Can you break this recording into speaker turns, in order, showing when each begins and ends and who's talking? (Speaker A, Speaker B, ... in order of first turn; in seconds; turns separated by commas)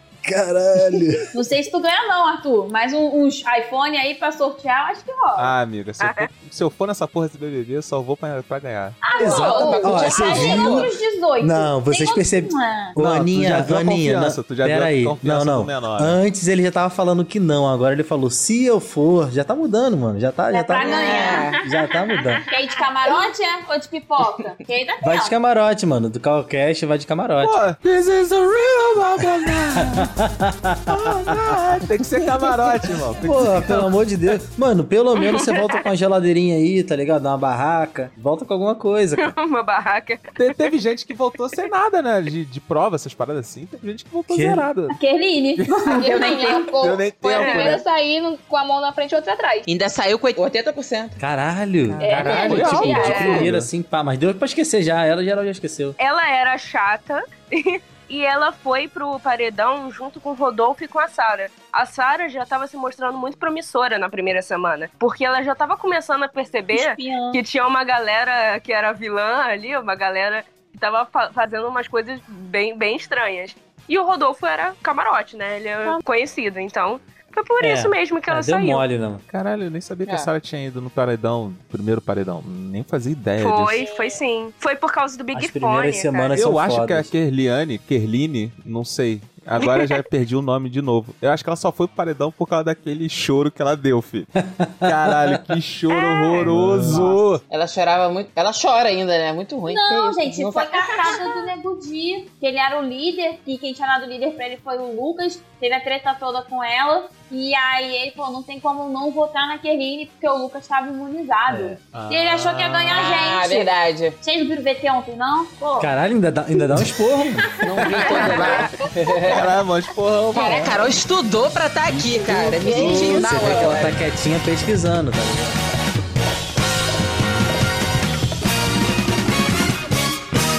Speaker A: 0.2-1.2, Speaker B: 1.3-5.5, Speaker C: 5.4-9.0, Speaker D: 6.0-6.3, Speaker B: 9.0-13.0, Speaker E: 9.2-10.9, Speaker F: 9.2-10.3, Speaker A: 9.2-22.4, Speaker C: 13.0-16.2, Speaker B: 20.5-21.7, Speaker E: 20.8-21.6, Speaker B: 22.4-25.3, Speaker F: 23.0-23.3, Speaker A: 25.0-27.6, Speaker C: 27.4-30.1, Speaker A: 29.9-31.6, Speaker C: 30.9-33.9, Speaker A: 33.2-39.3, Speaker D: 35.2-35.8, Speaker D: 39.2-40.7, Speaker C: 40.4-45.0, Speaker A: 44.3-44.7, Speaker B: 44.9-46.8, Speaker C: 45.6-46.0, Speaker F: 45.9-49.7, Speaker C: 46.8-47.8, Speaker D: 47.4-47.7, Speaker E: 49.7-51.2, Speaker A: 51.2-56.0, Speaker C: 51.9-53.7, Speaker F: 52.0-53.5, Speaker D: 52.4-53.4, Speaker D: 56.0-78.8, Speaker B: 66.7-67.4, Speaker A: 77.6-79.2, Speaker C: 79.3-83.8, Speaker D: 83.4-86.3, Speaker F: 83.8-84.2, Speaker A: 85.3-87.1, Speaker C: 86.3-94.3, Speaker D: 89.6-90.0, Speaker A: 94.4-95.4, Speaker C: 94.8-97.4, Speaker D: 95.9-96.5, Speaker A: 96.4-97.1, Speaker E: 96.8-101.2, Speaker B: 99.7-115.9, Speaker A: 111.5-111.8, Speaker C: 111.9-113.0, Speaker E: 112.9-114.2, Speaker A: 115.8-117.5, Speaker E: 117.6-119.5, Speaker F: 118.0-118.9, Speaker D: 118.2-118.6, Speaker C: 119.3-120.9, Speaker E: 120.3-124.0, Speaker A: 122.3-125.6, Speaker F: 122.4-123.7, Speaker C: 122.8-123.6